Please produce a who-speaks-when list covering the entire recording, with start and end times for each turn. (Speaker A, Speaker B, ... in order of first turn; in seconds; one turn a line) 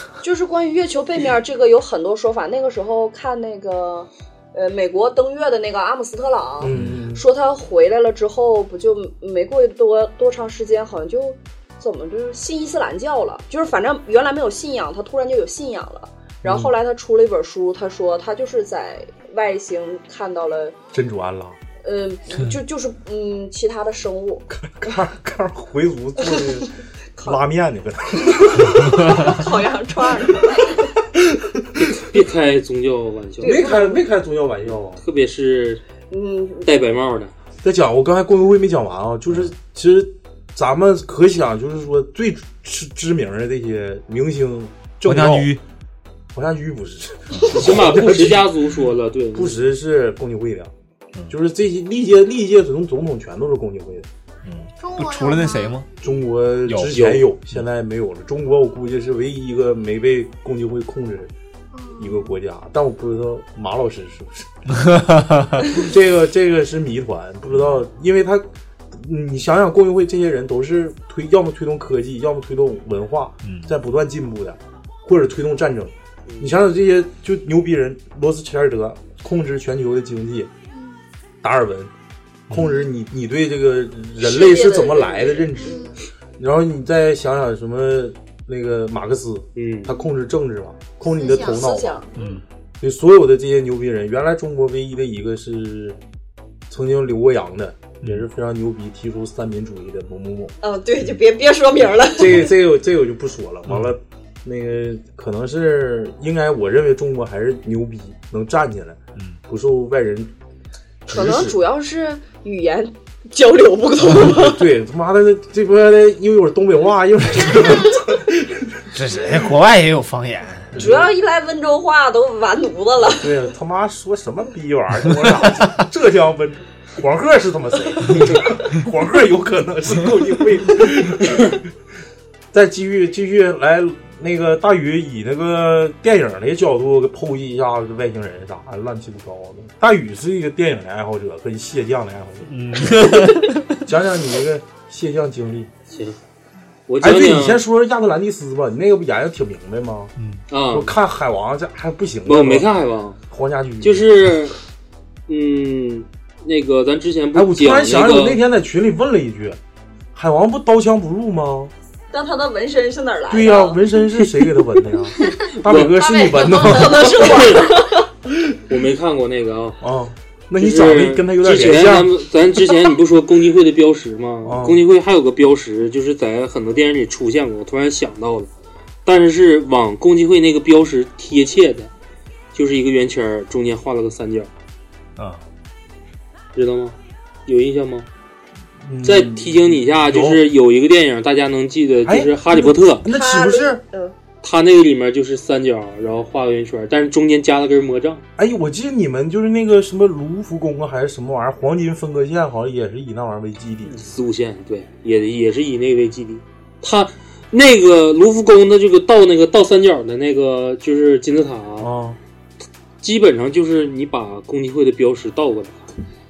Speaker A: 0.2-20.8
Speaker B: 6.6-7.2
Speaker B: 16.4-16.7
Speaker B: 20.9-21.6
Speaker A: 21.8-25.0
Speaker B: 24.5-29.5
Speaker A: 28.4-30.9
Speaker B: 31.1-31.8
Speaker C: 31.8-33.6
Speaker A: 33.4-34.0
Speaker B: 33.4-35.0
Speaker C: 35.0-35.8
Speaker A: 36.1-36.7
Speaker C: 36.6-37.3
Speaker B: 37.6-45.6
Speaker D: 45.0-45.6
Speaker B: 46.3-48.5
Speaker C: 47.5-49.6
Speaker B: 49.3-50.7
Speaker B: 51.3-54.1
Speaker D: 54.5-55.9
Speaker E: 54.8-55.8
Speaker B: 56.0-61.3
Speaker D: 56.7-57.0
Speaker C: 56.9-57.2
Speaker E: 61.7-62.4
Speaker B: 62.0-64.5
Speaker D: 64.7-65.7
Speaker B: 65.7-80.5
Speaker D: 73.4-73.7
Speaker C: 76.3-76.6
Speaker E: 80.7-81.0
Speaker B: 81.4-81.9
Speaker B: 82.5-85.8
Speaker E: 82.5-82.9
Speaker A: 84.2-85.8
Speaker E: 85.6-86.0
Speaker B: 86.4-92.0
Speaker C: 89.6-89.9
Speaker E: 91.0-91.7
Speaker A: 91.5-92.1
Speaker D: 92.2-92.4
Speaker B: 92.8-96.0
Speaker B: 96.7-100.5
Speaker A: 100.6-102.4
Speaker B: 102.1-110.3
Speaker A: 111.1-114.7
Speaker B: 111.1-111.5
Speaker B: 114.2-118.8
Speaker D: 118.9-120.8
Speaker B: 120.8-121.1
Speaker A: 120.8-123.4
Speaker B: 123.1-131.6
Speaker B: 132.5-143.2
Speaker D: 142.5-143.8
Speaker B: 143.8-145.7
Speaker C: 145.9-146.2
Speaker C: 146.9-147.6
Speaker B: 147.0-150.1
Speaker D: 150.2-150.4
Speaker C: 150.5-150.9
Speaker B: 150.7-152.7
Speaker C: 152.3-153.2
Speaker B: 153.3-154.1
Speaker C: 153.8-154.6
Speaker C: 155.3-158.4
Speaker B: 157.3-159.6
Speaker B: 160.2-161.7
Speaker A: 162.1-163.8
Speaker B: 163.3-167.6
Speaker C: 165.6-166.0
Speaker A: 166.0-168.1
Speaker C: 166.7-167.8
Speaker C: 168.7-169.8
Speaker B: 169.8-172.2
Speaker C: 170.6-178.5
Speaker B: 174.4-174.8
Speaker C: 179.1-181.9
Speaker C: 182.5-184.5
Speaker D: 185.2-185.4
Speaker C: 186.6-188.1
Speaker B: 188.8-190.4
Speaker C: 189.0-193.1
Speaker B: 192.1-193.8
Speaker A: 193.1-194.2
Speaker C: 194.4-198.2
Speaker B: 198.4-204.1
Speaker C: 203.9-211.9
Speaker B: 211.8-212.2
Speaker C: 213.0-215.9